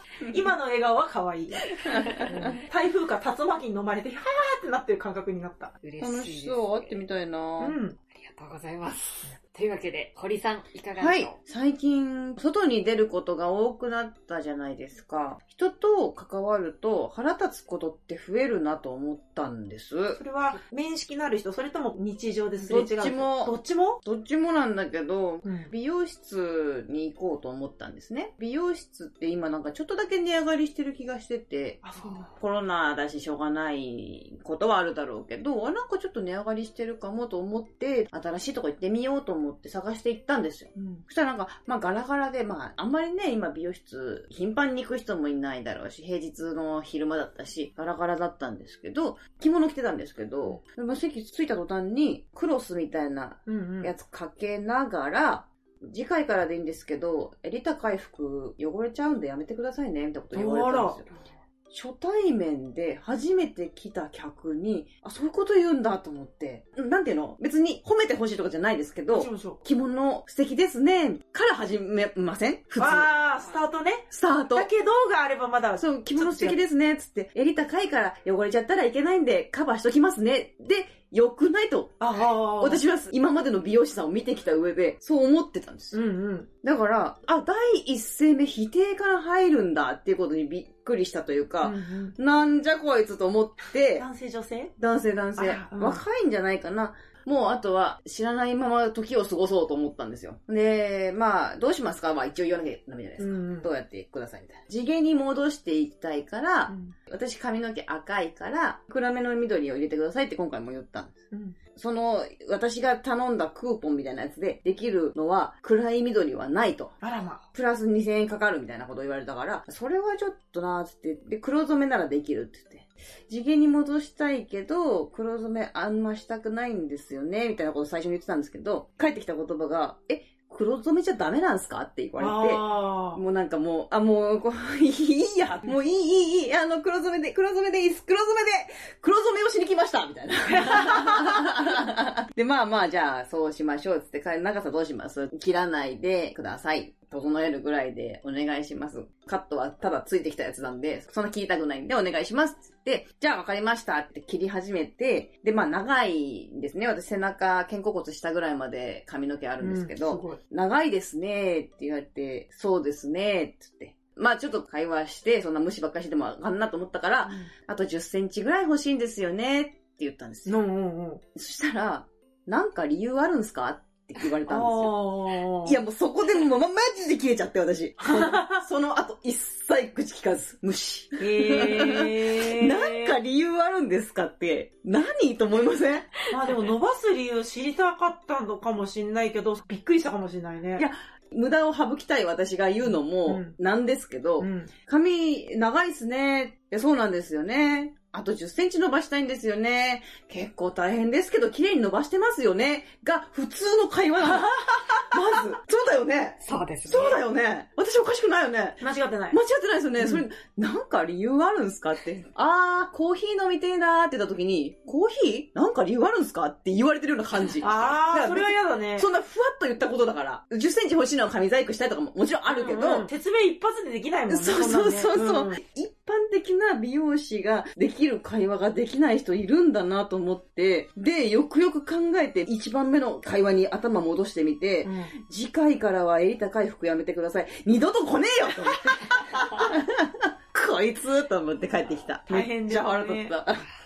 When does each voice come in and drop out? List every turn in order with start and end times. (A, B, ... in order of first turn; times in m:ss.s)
0:00.3-0:05.8 A
0:01.7-0:02.6 B
0:01.9-0:02.6 C
0:05.8-0:07.0 B
0:06.0-0:07.8 C
0:07.6-0:08.0 A
0:08.1-0:11.4 B
0:11.0-0:20.2 C
0:20.2-0:24.0 A
0:22.6-1:01.1 C
0:25.4-0:25.7 A
0:31.8-0:32.4 A
0:40.8-0:41.0 A
0:53.5-0:53.9 A
1:00.3-1:01.0 A
1:01.7-1:13.1 C
1:09.1-1:09.6 A
1:12.8-1:16.6 A
1:14.1-1:14.7 C
1:15.8-1:26.0 C
1:22.0-1:22.8 A
1:25.9-1:26.5 A
1:26.6-1:34.1 C
1:31.6-1:32.2 A
1:34.0-1:34.7 A
1:34.8-1:51.2 C
1:35.4-1:36.0 A
1:43.2-1:43.7 A
1:46.7-1:47.0 A
1:51.3-1:51.6 A
1:51.8-1:57.0 C
1:57.0-1:57.4 A
1:57.5-2:50.6 C
2:12.2-2:13.2 A
2:20.5-2:21.3 A
2:39.6-2:40.4 A
2:47.2-2:47.5 A
2:50.5-2:51.2 A
2:51.4-2:55.1 C
2:54.5-2:55.8 A
2:55.6-3:06.2 C
2:58.0-2:58.6 A
3:01.2-3:03.2 A
3:06.3-3:10.9 A
3:10.8-3:28.8 C
3:12.8-3:13.6 A
3:14.4-3:14.7 A
3:26.4-3:27.2 B
3:28.8-3:29.4 A
3:29.3-3:43.1 C
3:30.0-3:30.2 A
3:37.6-3:39.1 A
3:42.5-3:45.6 A
3:44.3-4:03.6 C
3:54.8-3:55.1 A
3:59.4-3:59.6 B
4:02.3-4:03.4 A